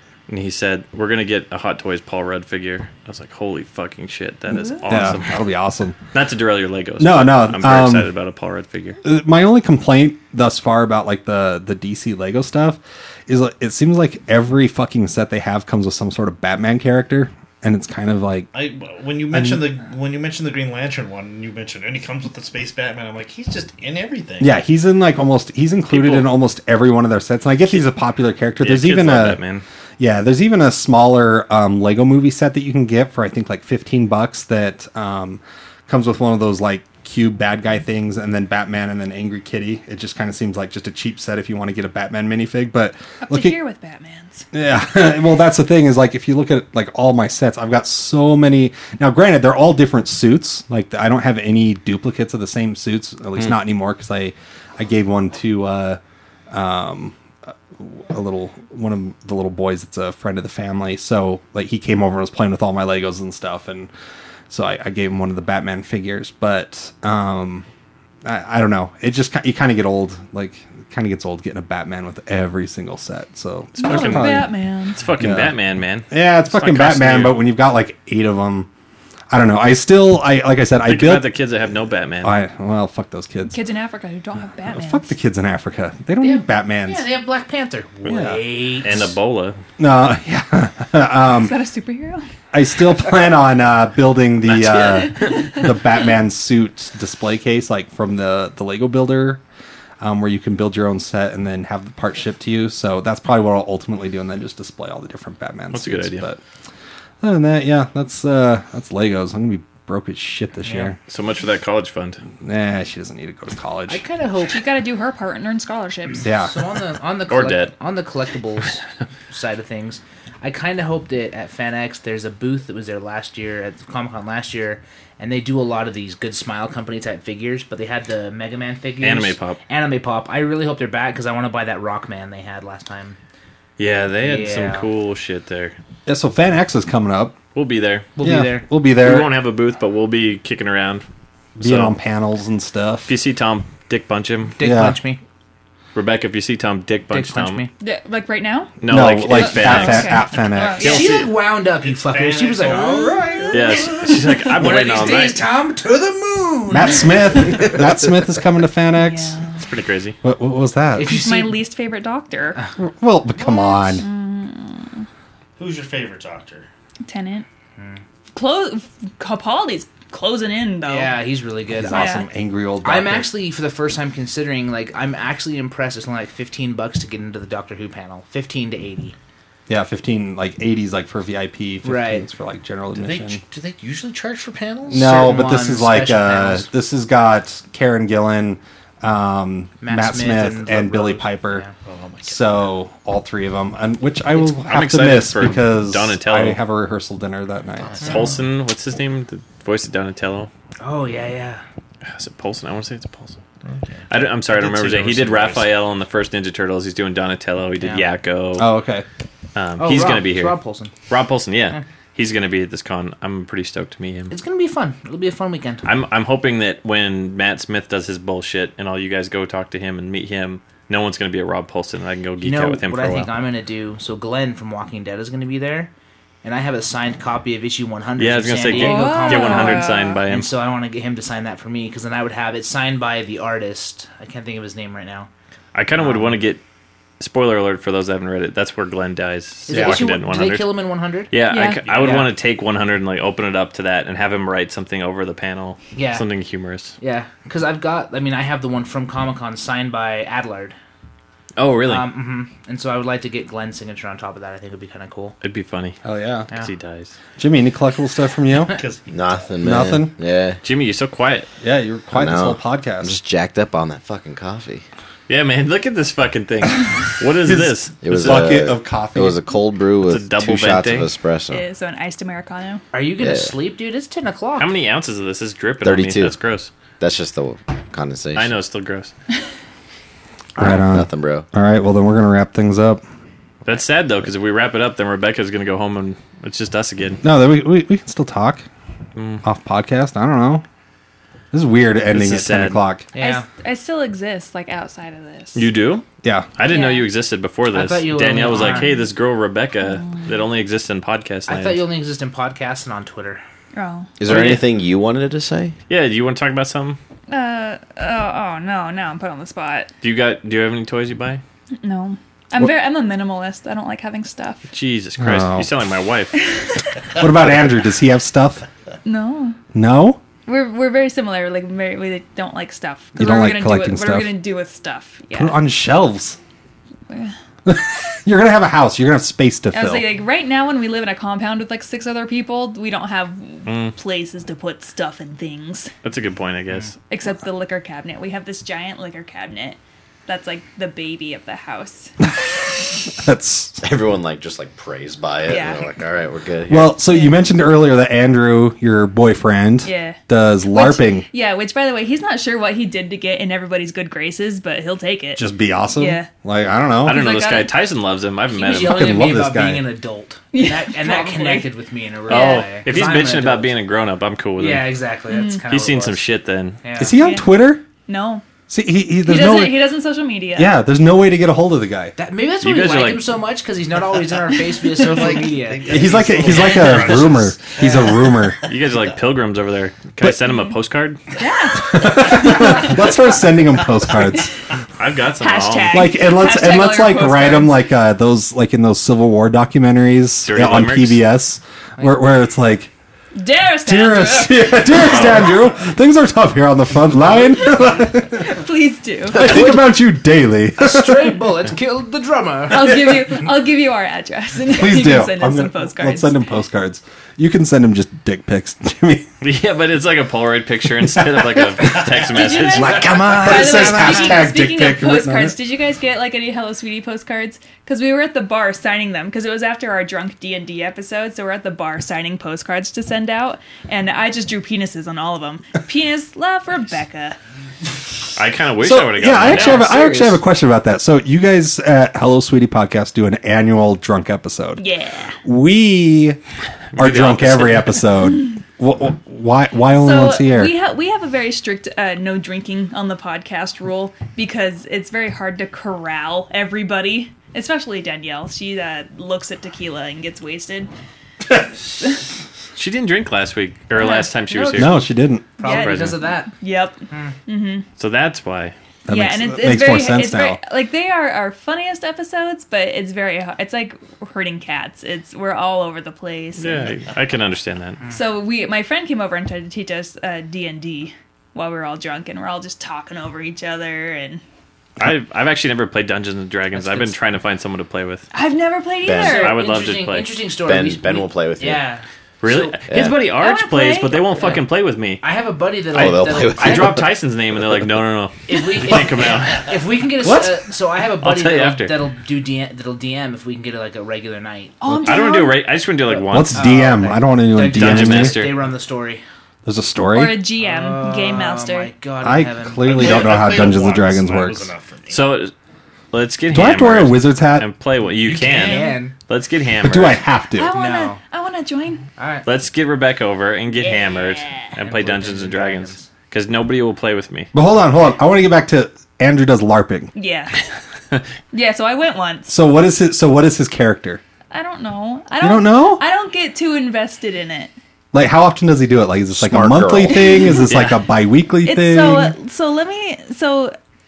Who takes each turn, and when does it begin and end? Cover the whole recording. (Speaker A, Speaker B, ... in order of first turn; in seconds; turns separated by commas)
Speaker A: 0.3-5.3, Speaker B: 4.9-6.0, Speaker A: 6.1-9.0, Speaker B: 7.0-8.1, Speaker B: 9.0-18.5, Speaker C: 18.5-24.6, Speaker B: 19.3-19.6, Speaker B: 24.4-29.4, Speaker A: 25.9-26.3, Speaker A: 28.6-29.6, Speaker B: 30.0-43.6, Speaker D: 43.2-44.5, Speaker B: 44.5-56.0, Speaker B: 56.5-57.2, Speaker B: 57.8-63.9, Speaker B: 64.5-67.7, Speaker B: 68.2-74.5, Speaker D: 73.8-75.0, Speaker A: 73.8-77.4, Speaker B: 75.2-75.6, Speaker B: 76.1-78.7, Speaker B: 79.3-81.3, Speaker A: 80.8-82.3, Speaker B: 82.2-83.6, Speaker D: 83.5-85.1, Speaker B: 84.7-87.1, Speaker E: 86.2-89.2, Speaker B: 88.0-88.4, Speaker A: 88.7-89.6, Speaker B: 89.8-91.5, Speaker D: 91.3-92.3, Speaker B: 92.5-99.4, Speaker A: 94.5-95.5, Speaker D: 95.2-95.6, Speaker B: 100.0-106.4, Speaker A: 105.7-106.2, Speaker B: 107.2-111.0, Speaker E: 110.7-110.9, Speaker A: 111.1-112.2, Speaker B: 112.4-114.0, Speaker E: 113.9-114.6, Speaker D: 114.5-116.3, Speaker B: 116.2-116.5, Speaker E: 116.3-133.2, Speaker A: 117.3-117.7, Speaker A: 129.0-129.6, Speaker A: 133.8-135.8, Speaker E: 134.2-134.9, Speaker B: 136.1-137.4, Speaker A: 137.6-138.1, Speaker E: 138.2-138.7, Speaker B: 138.2-139.3, Speaker A: 139.0-141.1, Speaker A: 141.6-141.9, Speaker B: 141.6-143.1, Speaker A: 143.1-144.6, Speaker E: 144.6-145.2, Speaker B: 144.6-145.0, Speaker A: 145.9-147.6, Speaker E: 147.1-147.7, Speaker D: 147.8-148.8, Speaker A: 148.8-151.3, Speaker B: 148.9-151.0, Speaker D: 149.3-151.2, Speaker E: 150.8-157.8, Speaker C: 151.8-153.9, Speaker A: 153.5-155.4, Speaker B: 156.7-159.4, Speaker D: 158.9-159.6, Speaker A: 159.6-160.2, Speaker B: 160.2-161.1, Speaker E: 160.9-161.6, Speaker D: 161.1-162.6, Speaker B: 162.8-164.1, Speaker D: 163.4-165.1, Speaker C: 165.6-166.7, Speaker D: 167.1-167.5, Speaker D: 168.3-171.2, Speaker E: 170.8-172.2, Speaker B: 171.7-173.3, Speaker D: 171.9-172.3, Speaker E: 172.8-179.2, Speaker B: 179.7-183.4, Speaker E: 181.8-182.2, Speaker C: 182.9-185.1, Speaker B: 184.9-191.7, Speaker E: 184.9-186.7, Speaker E: 189.8-191.8, Speaker C: 191.8-192.6, Speaker B: 192.2-198.1, Speaker A: 194.4-196.6, Speaker C: 197.9-198.3, Speaker A: 198.0-200.5, Speaker E: 200.8-201.6, Speaker A: 202.0-203.4, Speaker C: 203.6-205.7, Speaker A: 204.1-208.7, Speaker B: 208.6-209.1, Speaker A: 209.6-210.6, Speaker E: 209.8-210.9, Speaker A: 211.1-214.3, Speaker E: 214.3-215.9, Speaker A: 215.8-223.3, Speaker E: 222.4-225.9, Speaker E: 226.4-235.3, Speaker A: 228.2-230.5, Speaker D: 228.7-230.2, Speaker A: 235.7-236.6, Speaker E: 236.0-236.4, Speaker A: 237.2-240.7, Speaker E: 239.7-241.3, Speaker B: 239.7-240.1, Speaker A: 241.3-247.0, Speaker D: 241.5-241.8, Speaker C: 241.8-242.2, Speaker E: 241.9-242.3, Speaker E: 245.9-246.2, Speaker E: 247.0-250.8, Speaker A: 251.6-252.1, Speaker E: 251.9-255.4, Speaker A: 255.4-256.0, Speaker B: 256.0-256.5, Speaker A: 256.5-257.1, Speaker B: 257.4-258.8, Speaker C: 258.7-259.4, Speaker F: 259.1-260.6, Speaker B: 259.6-260.1, Speaker A: 260.6-261.5, Speaker B: 261.6-263.2, Speaker F: 262.1-264.8, Speaker A: 265.3-268.6, Speaker B: 267.5-269.4, Speaker F: 268.0-271.6, Speaker A: 270.0-271.1, Speaker D: 271.5-272.8, Speaker E: 272.9-274.7, Speaker F: 273.2-273.5, Speaker A: 274.6-276.7, Speaker F: 275.8-276.4, Speaker F: 277.0-278.5, Speaker A: 278.4-279.1, Speaker B: 280.6-283.0, Speaker F: 280.6-281.4, Speaker A: 283.6-287.2, Speaker B: 287.2-288.6, Speaker A: 289.2-289.4, Speaker B: 289.4-290.6, Speaker B: 291.5-293.1, Speaker A: 292.1-292.8, Speaker E: 293.1-293.5, Speaker D: 293.2-295.7, Speaker A: 295.6-296.1, Speaker B: 296.2-296.5, Speaker A: 296.6-301.9, Speaker D: 296.6-297.1, Speaker E: 297.7-298.9, Speaker D: 298.5-299.1, Speaker D: 299.9-300.3, Speaker E: 301.5-303.4, Speaker D: 303.7-304.1, Speaker F: 304.2-305.8, Speaker A: 304.2-304.6, Speaker A: 305.9-307.0, Speaker D: 307.3-309.9, Speaker A: 310.0-311.4, Speaker D: 311.8-314.6, Speaker A: 314.7-316.3, Speaker B: 315.2-315.7, Speaker B: 317.1-318.6, Speaker D: 319.1-319.6, Speaker B: 319.7-320.2, Speaker D: 320.5-325.6, Speaker B: 323.2-324.3, Speaker B: 325.3-326.4, Speaker D: 327.1-327.4, Speaker B: 327.7-330.1, Speaker D: 329.7-335.9, Speaker A: 333.7-333.9, Speaker A: 336.0-336.9, Speaker D: 337.1-342.1, Speaker B: 343.1-343.8, Speaker F: 343.8-346.9, Speaker D: 345.5-345.8, Speaker B: 346.7-351.3, Speaker D: 347.1-347.4, Speaker D: 349.8-356.3, Speaker B: 355.4-357.2, Speaker A: 357.1-359.2, Speaker D: 357.1-357.7, Speaker E: 358.5-363.7, Speaker B: 358.7-359.9, Speaker D: 360.5-361.7, Speaker D: 362.3-362.7, Speaker A: 362.3-365.1, Speaker E: 364.6-366.2, Speaker D: 365.3-365.6, Speaker A: 365.7-366.8, Speaker E: 366.8-367.2, Speaker B: 367.0-367.8, Speaker D: 367.2-367.5, Speaker D: 368.1-368.4, Speaker B: 368.7-369.9, Speaker D: 369.2-370.8, Speaker B: 370.6-372.1, Speaker E: 372.2-378.2, Speaker A: 372.6-373.4, Speaker C: 374.9-378.5, Speaker B: 375.9-378.6, Speaker A: 378.7-381.2, Speaker D: 381.4-382.9, Speaker B: 381.9-384.5, Speaker A: 385.0-386.1, Speaker D: 385.4-387.8, Speaker B: 385.9-392.9, Speaker A: 390.4-391.2, Speaker D: 393.4-395.2, Speaker B: 393.9-398.6, Speaker D: 397.7-399.6, Speaker B: 399.3-401.5, Speaker E: 400.8-403.3, Speaker D: 402.7-406.4, Speaker B: 404.7-409.3, Speaker A: 409.4-413.2, Speaker B: 411.2-415.6, Speaker D: 412.3-427.4, Speaker E: 412.7-414.4, Speaker A: 428.4-430.0, Speaker B: 428.8-434.8, Speaker E: 429.5-430.4, Speaker D: 434.8-435.4, Speaker B: 435.4-436.4, Speaker A: 437.0-438.0, Speaker B: 437.0-440.7, Speaker D: 439.9-450.9, Speaker A: 452.8-455.1, Speaker D: 454.0-455.0, Speaker B: 454.8-455.5, Speaker D: 455.6-457.9, Speaker E: 455.6-456.5, Speaker A: 455.6-456.3, Speaker E: 457.1-457.4, Speaker A: 458.0-458.8, Speaker B: 459.1-460.6, Speaker D: 459.1-466.9, Speaker A: 466.6-468.0, Speaker D: 468.1-474.4, Speaker A: 475.0-478.2, Speaker E: 476.7-477.2, Speaker D: 478.3-479.6, Speaker F: 479.1-479.5, Speaker E: 479.1-482.8, Speaker A: 479.3-480.3, Speaker F: 480.6-481.9, Speaker A: 482.4-485.2, Speaker F: 482.9-483.2, Speaker D: 483.4-484.3, Speaker E: 484.3-484.7, Speaker E: 485.2-487.0, Speaker F: 485.9-487.1, Speaker A: 485.9-489.8, Speaker E: 488.5-494.8, Speaker B: 490.2-490.6, Speaker A: 491.2-492.1, Speaker D: 494.8-495.6, Speaker A: 495.0-496.6, Speaker E: 496.2-499.2, Speaker B: 496.3-498.4, Speaker A: 497.6-498.5, Speaker B: 499.6-500.4, Speaker D: 500.1-501.9, Speaker E: 500.6-503.7, Speaker B: 502.2-504.7, Speaker C: 502.8-505.2, Speaker A: 505.1-505.5, Speaker A: 506.1-510.2, Speaker B: 506.5-507.7, Speaker E: 508.3-509.1, Speaker D: 508.4-509.1, Speaker B: 509.8-510.7, Speaker D: 510.5-512.1, Speaker E: 510.7-511.2, Speaker E: 512.2-512.5, Speaker A: 512.5-517.5, Speaker E: 514.8-516.1, Speaker B: 517.5-520.1, Speaker D: 520.1-520.6, Speaker D: 521.5-522.5, Speaker B: 522.5-524.2, Speaker D: 524.5-527.7, Speaker B: 525.4-526.0, Speaker B: 528.1-532.4, Speaker F: 529.4-530.6, Speaker A: 530.7-531.0, Speaker D: 531.6-533.8